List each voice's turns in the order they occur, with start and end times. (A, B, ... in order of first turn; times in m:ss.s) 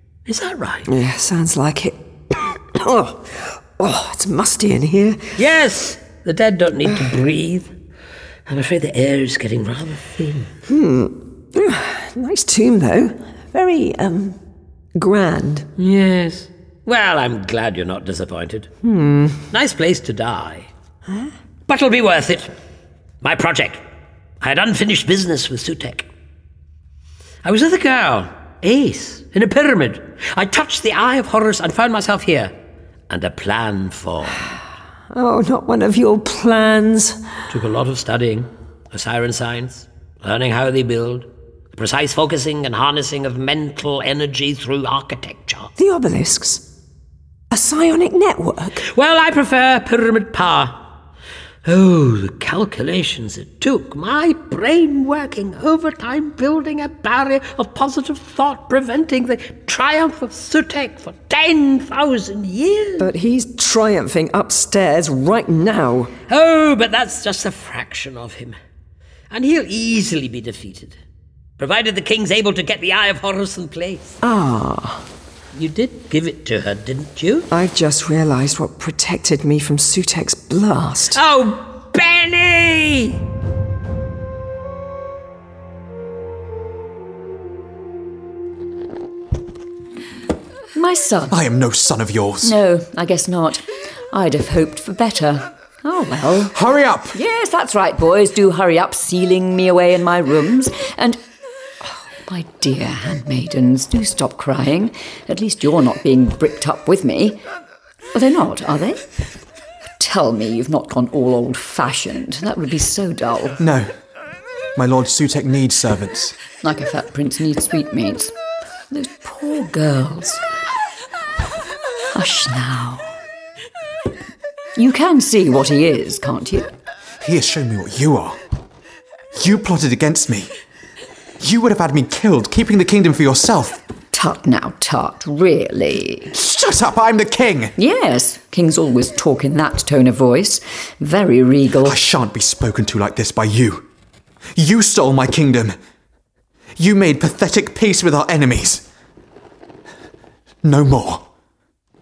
0:00.3-0:00.9 A
0:00.9-0:05.3 B
0:05.4-0:07.7 A
0:08.5-0:10.5 A
0:10.7-0:14.4 B
0:15.0-0:15.7 B
0:15.8-0:18.7 A
0:18.8-0:19.4 B
0:19.5-0:20.7 A
0:21.7-0:22.5 A
0:23.2-0:23.8 A
0:24.4-0:26.1 A
0:27.4-0:32.5 A
0:33.1-0:34.6 A
0:35.1-0:37.2 B
0:37.5-0:45.7 A
0:45.8-0:46.6 B
0:47.5-0:48.8 B
0:48.8-0:50.8 A
0:51.6-1:03.1 A
1:03.0-1:06.1 B
1:06.3-1:08.6 A
1:09.3-1:11.0 A
1:11.6-1:14.1 A
1:14.2-1:15.1 B
1:15.5-1:17.5 A
1:17.5-1:21.2 B
1:21.1-1:23.2 A
1:30.7-1:31.4 C
1:31.3-1:32.6 D
1:32.4-1:36.6 C
1:36.5-1:37.2 D
1:37.1-1:41.2 C
1:42.2-1:47.4 C
1:48.1-1:49.0 C
1:50.0-1:53.6 C
1:53.6-1:53.9 D
1:54.8-1:56.4 D
1:56.6-1:58.3 C
1:58.9-2:00.4 C
2:02.1-2:03.2 C
2:04.8-2:06.7 C
2:07.2-2:08.4 D
2:09.4-2:10.5 D
2:11.4-2:13.8 D
2:14.1-2:16.3 C
2:16.3-2:17.7 D
2:17.8-2:22.0 C
2:21.8-2:23.9 D
2:24.6-2:25.8 D
2:26.8-2:28.8 D
2:30.6-2:31.2 D